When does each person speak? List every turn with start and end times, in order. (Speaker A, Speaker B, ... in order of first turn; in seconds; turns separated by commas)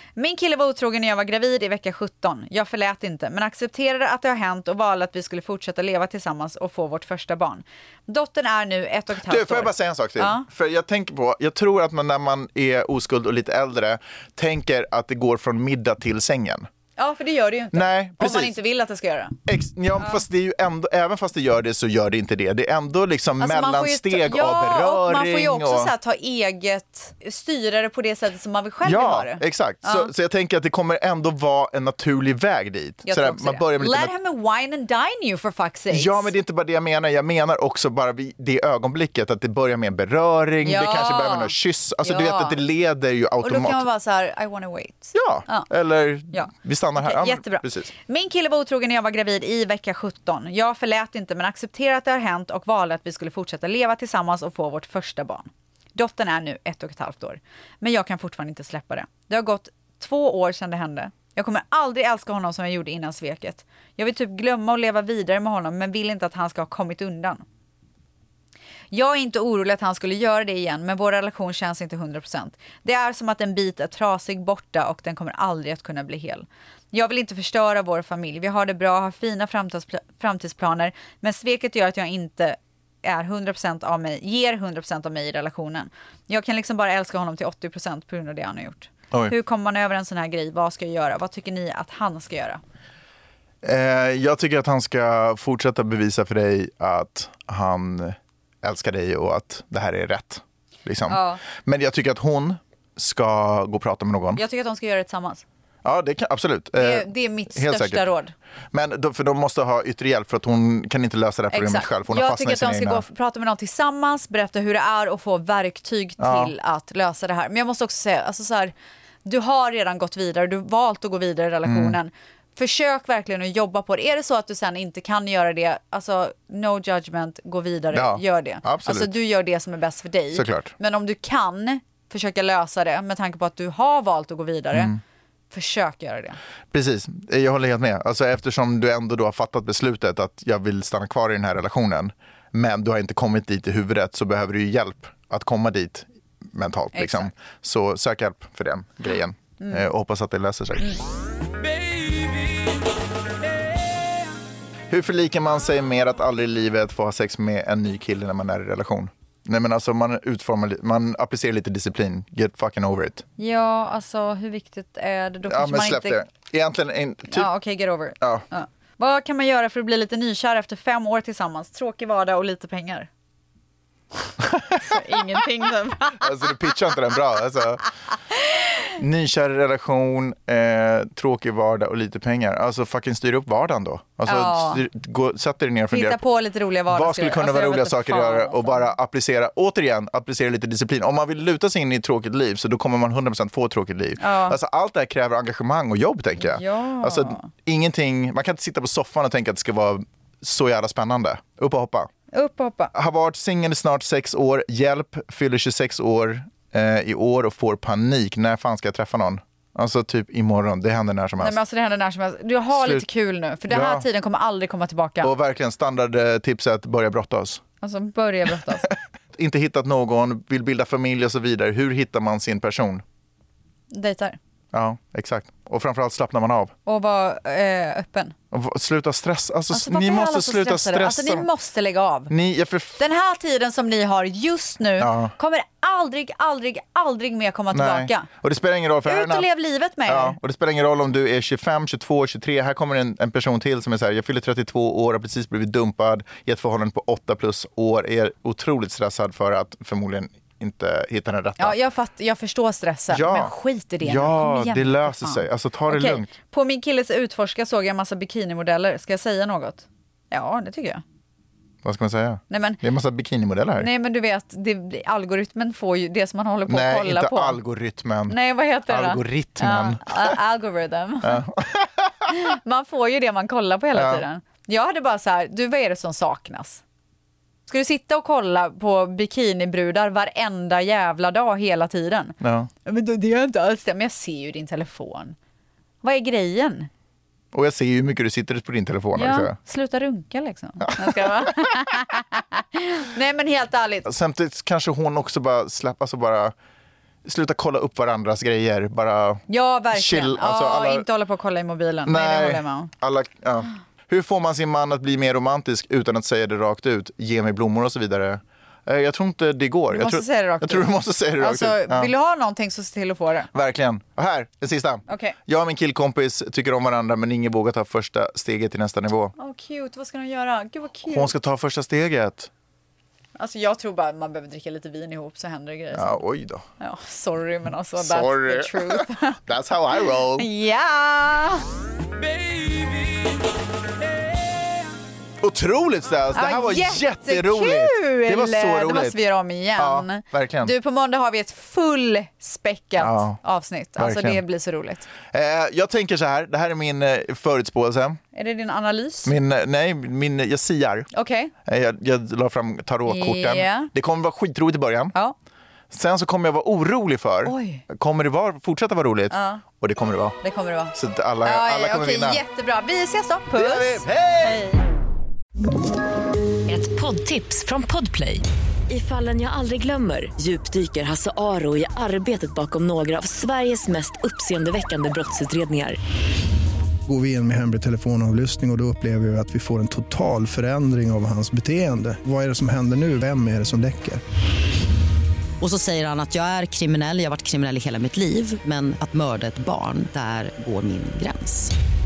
Speaker A: 0.2-10.4, Speaker B: 9.3-16.7, Speaker A: 17.0-19.4, Speaker B: 17.7-18.6, Speaker B: 19.5-25.9, Speaker A: 23.4-30.1, Speaker B: 28.9-34.1, Speaker A: 33.1-36.3, Speaker B: 35.9-43.8, Speaker A: 40.6-42.6, Speaker A: 43.4-45.7, Speaker B: 45.1-47.9, Speaker A: 46.3-67.4, Speaker A: 68.9-92.6, Speaker B: 93.6-104.4, Speaker A: 101.1-101.4, Speaker A: 104.3-105.5, Speaker B: 105.8-108.0, Speaker A: 106.8-108.3, Speaker B: 108.7-113.0, Speaker A: 111.5-118.7, Speaker B: 116.2-116.5, Speaker A: 119.2-134.9, Speaker B: 121.7-122.0, Speaker B: 127.9-129.1, Speaker B: 130.3-130.7, Speaker B: 134.7-135.0, Speaker A: 135.5-136.4, Speaker B: 136.7-150.9, Speaker A: 146.9-147.3, Speaker A: 149.6-149.9, Speaker B: 154.9-163.2, Speaker A: 163.4-166.2, Speaker B: 165.5-167.5, Speaker A: 167.3-173.1, Speaker B: 174.4-174.8, Speaker A: 174.8-176.6, Speaker B: 176.2-177.8, Speaker B: 179.0-186.2, Speaker A: 184.3-184.8, Speaker A: 185.9-188.9, Speaker B: 186.9-202.1, Speaker A: 194.2-194.6, Speaker A: 196.4-197.5, Speaker A: 202.3-202.9, Speaker B: 202.9-211.6, Speaker A: 211.4-215.3, Speaker B: 212.7-213.1, Speaker B: 213.7-214.1, Speaker B: 215.2-217.6, Speaker A: 217.8-218.9, Speaker B: 219.3-223.0, Speaker A: 223.9-224.4, Speaker B: 224.7-226.7, Speaker A: 226.9-228.3, Speaker B: 228.5-231.5, Speaker A: 229.7-232.3, Speaker B: 232.3-233.0, Speaker A: 233.0-238.3, Speaker B: 235.0-235.3, Speaker B: 237.7-239.5, Speaker A: 239.1-240.4, Speaker B: 240.1-251.8, Speaker A: 251.6-261.0, Speaker B: 253.1-256.3, Speaker B: 261.8-263.9, Speaker A: 262.5-262.8, Speaker A: 263.8-267.6, Speaker B: 266.7-268.4, Speaker A: 268.3-271.4, Speaker B: 268.9-270.4, Speaker B: 271.2-272.3, Speaker A: 272.3-276.8, Speaker B: 273.9-274.2, Speaker A: 277.7-285.4, Speaker B: 282.4-282.7, Speaker A: 286.0-286.9, Speaker B: 287.5-289.6, Speaker A: 289.1-294.1, Speaker B: 290.9-291.5, Speaker B: 294.1-296.5, Speaker B: 297.2-301.1, Speaker A: 299.5-302.9, Speaker B: 302.1-312.1, Speaker A: 309.9-313.5, Speaker B: 313.5-319.3, Speaker A: 315.1-315.4, Speaker A: 319.4-321.3, Speaker B: 321.1-322.5, Speaker A: 323.4-326.2, Speaker B: 325.9-326.6, Speaker A: 326.8-329.4, Speaker B: 328.0-330.5, Speaker A: 330.4-331.6, Speaker B: 335.4-339.2, Speaker A: 336.3-345.1, Speaker B: 339.8-340.7, Speaker B: 343.0-343.4, Speaker B: 344.0-344.4, Speaker B: 345.3-348.2, Speaker A: 348.3-349.4, Speaker B: 349.2-351.1, Speaker A: 351.1-351.5, Speaker B: 351.7-355.1, Speaker A: 353.1-353.9, Speaker B: 355.9-360.4, Speaker A: 357.4-357.9, Speaker A: 359.3-359.6, Speaker A: 360.4-364.8, Speaker B: 360.9-362.4, Speaker B: 363.5-364.6, Speaker C: 366.7-376.0, Speaker D: 377.1-384.2, Speaker E: 385.6-391.7